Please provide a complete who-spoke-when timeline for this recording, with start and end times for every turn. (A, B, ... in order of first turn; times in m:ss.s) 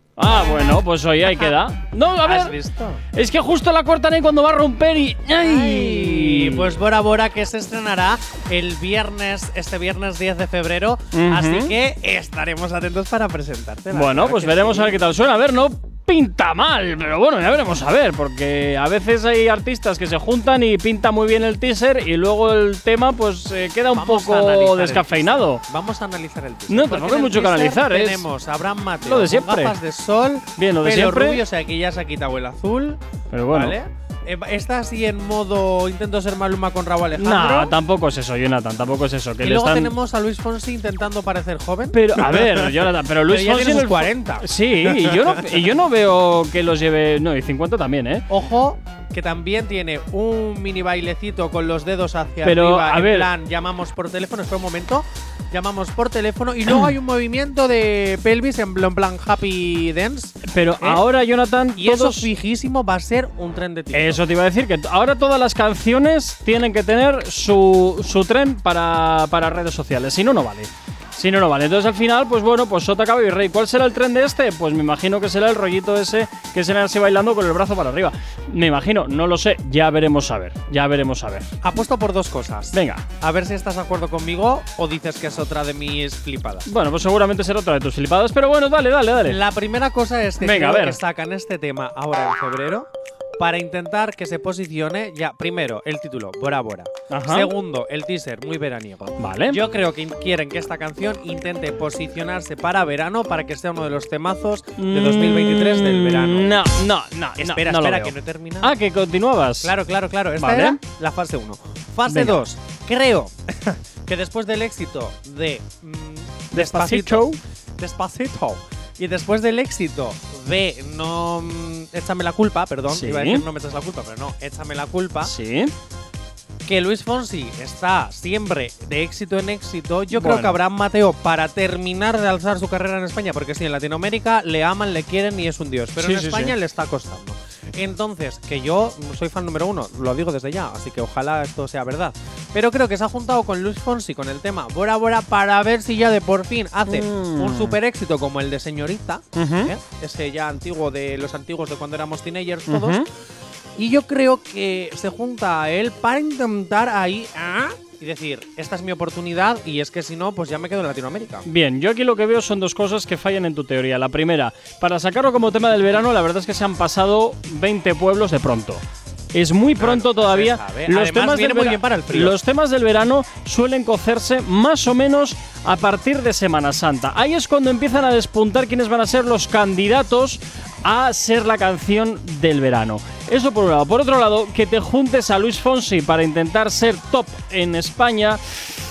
0:00.2-0:02.6 A
0:02.2-0:03.0 B
0:03.1-0:06.7 A
0:05.4-0:15.0 B
0:11.1-0:11.7 A
0:13.9-0:25.6 A
0:23.9-0:37.7 B
0:26.7-0:28.2 A
0:29.0-0:29.8 A
0:30.6-0:31.4 A
0:33.3-0:33.8 A
0:37.2-0:39.9 A
0:39.4-0:45.6 B
0:41.9-0:48.3 A
0:48.3-1:01.0 B
0:52.4-0:53.3 A
1:00.4-1:02.3 A
1:01.8-1:04.2 B
1:03.9-1:21.5 A
1:21.6-1:26.7 B
1:22.7-1:23.0 A
1:26.6-1:29.4 A
1:29.2-1:46.6 B
1:30.4-1:31.0 A
1:37.1-1:37.5 A
1:39.2-1:39.6 A
1:44.8-1:49.7 A
1:47.4-1:48.7 B
1:49.6-2:05.3 B
1:50.4-1:50.8 A
1:52.1-1:52.4 A
1:56.5-1:57.4 A
2:02.9-2:03.4 A
2:05.2-2:05.7 A
2:06.6-2:33.0 B
2:10.1-2:10.6 A
2:16.0-2:16.5 A
2:26.9-2:27.8 A
2:29.4-2:29.7 A
2:32.7-2:33.0 A
2:33.8-2:41.4 B
2:41.4-2:48.8 A
2:49.3-3:08.4 A
2:49.8-2:52.4 B